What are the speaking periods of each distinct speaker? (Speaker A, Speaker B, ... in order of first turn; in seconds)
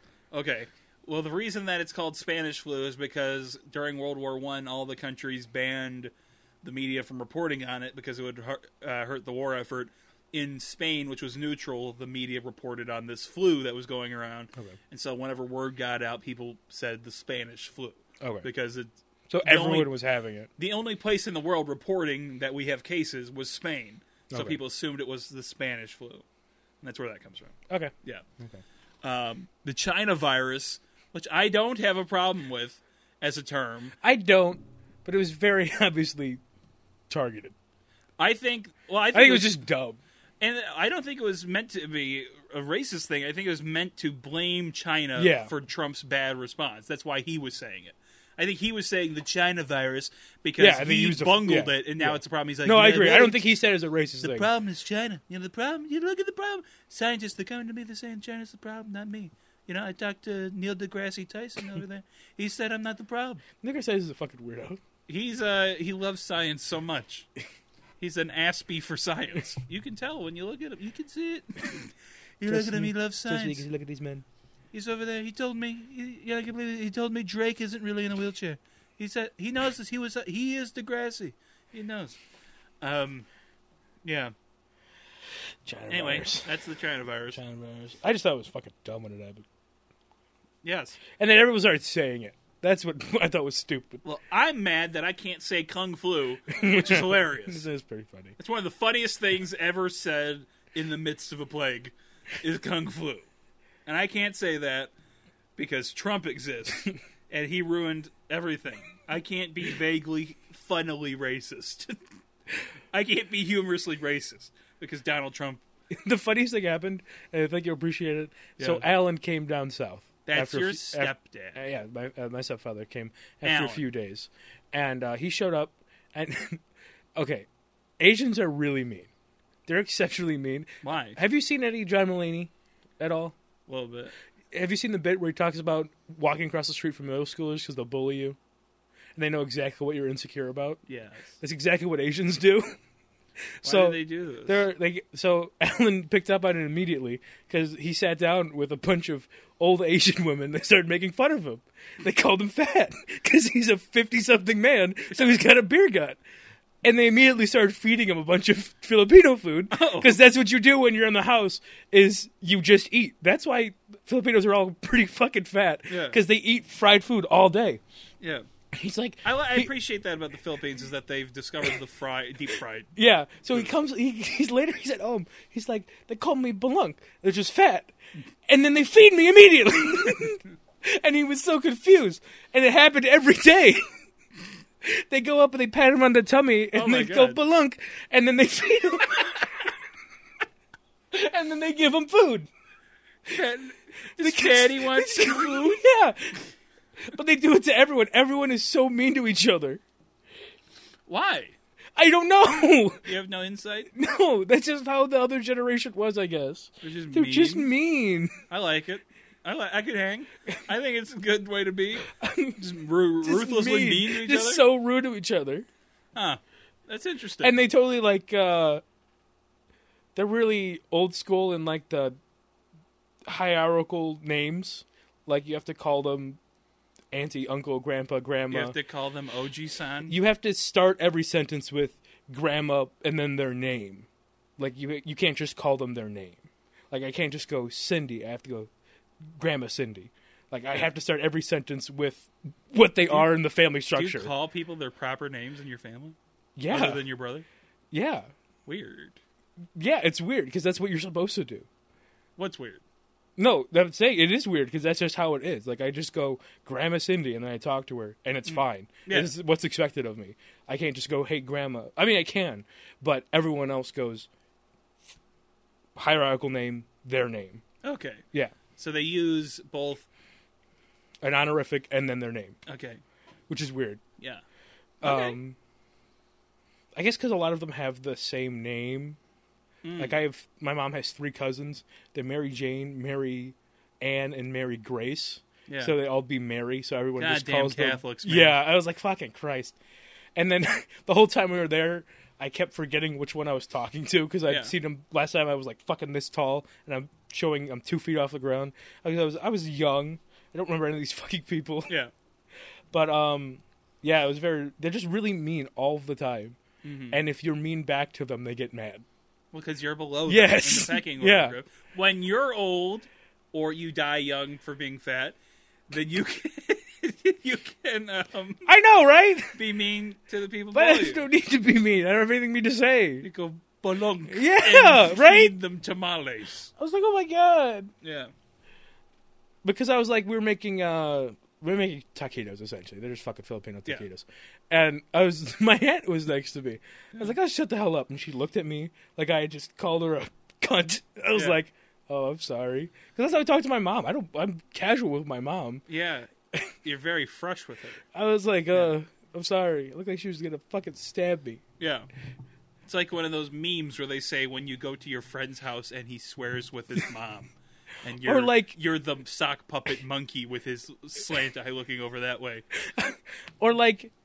Speaker A: 0.3-18.9, 19.4-19.9, 20.6-26.2, 26.8-28.2, 29.0-33.9, 38.2-39.6, 40.4-53.4, 54.2-63.4, 65.1-67.3, 68.0-73.7, 74.7-82.2, 82.8-83.3, 84.0-84.3, 85.9-87.4, 90.6-91.0, 94.0-97.7, 98.4-103.3, 103.9-104.9, 105.6-112.0, 112.9-115.6, 118.6-118.8, 120.3-121.6, 123.4-123.8, 130.8-131.2, 133.7-134.1, 140.9-141.4, 143.6-144.6, 155.1-155.4, 159.7-160.2, 165.9-166.2, 168.2-168.5, 169.2-172.9, 186.8-187.4, 193.3-195.8, 201.1-201.6, 203.1-203.9, 206.8-207.7, 208.5-212.1, 212.6-214.7, 216.2-217.6, 228.5-230.2, 243.1-243.3, 243.9-246.2, 246.7-247.5, 248.7-249.2, 252.4-252.8, 258.5-259.3, 267.8-268.2, 268.8-270.1, 272.7-273.0, 275.0-275.4, 279.8-280.2, 285.7-286.0, 287.2-288.6, 294.5-294.7, 306.8-307.2, 309.5-315.4, 315.9-318.7, 319.6-321.2, 323.2-326.7, 328.0-328.3, 341.3-341.6, 345.9-346.3, 346.8-348.0, 351.8-352.1, 352.9-357.5, 358.0-362.6
Speaker B: 18.2-18.5, 19.3-20.5, 24.3-24.6, 27.7-28.6, 34.0-36.4, 37.1-37.5, 39.1-40.0, 45.2-45.5, 50.6-54.5, 63.6-64.8, 72.5-74.2, 85.7-86.6, 87.3-89.5, 91.2-94.0, 96.5-98.4, 115.9-126.6, 127.2-127.5, 128.0-129.1, 129.7-133.4, 134.5-138.4, 139.2-140.8, 141.4-142.8, 143.6-156.2, 156.8-167.8, 168.7-169.7, 173.0-177.9, 178.5-183.8, 184.8-189.7, 191.1-192.5, 194.2-196.4, 197.0-199.8, 202.0-203.1, 203.9-208.3, 212.0-212.6, 213.2-215.7, 217.4-218.8, 220.2-222.2, 223.2-226.4, 227.1-228.8, 230.1-234.1, 234.6-238.7, 239.4-244.3, 246.6-247.0, 247.9-248.3, 249.8-251.7, 253.4-264.3, 266.0-267.6, 271.2-272.6, 273.5-274.0, 275.0-275.6, 276.9-279.2, 280.0-289.8, 290.4-301.9, 302.9-306.6, 307.1-309.1, 310.3-311.6, 318.7-319.6, 320.7-323.3, 324.3-325.5, 326.8-327.9, 329.6-345.9, 348.1-351.6, 358.2-358.7, 362.8-364.1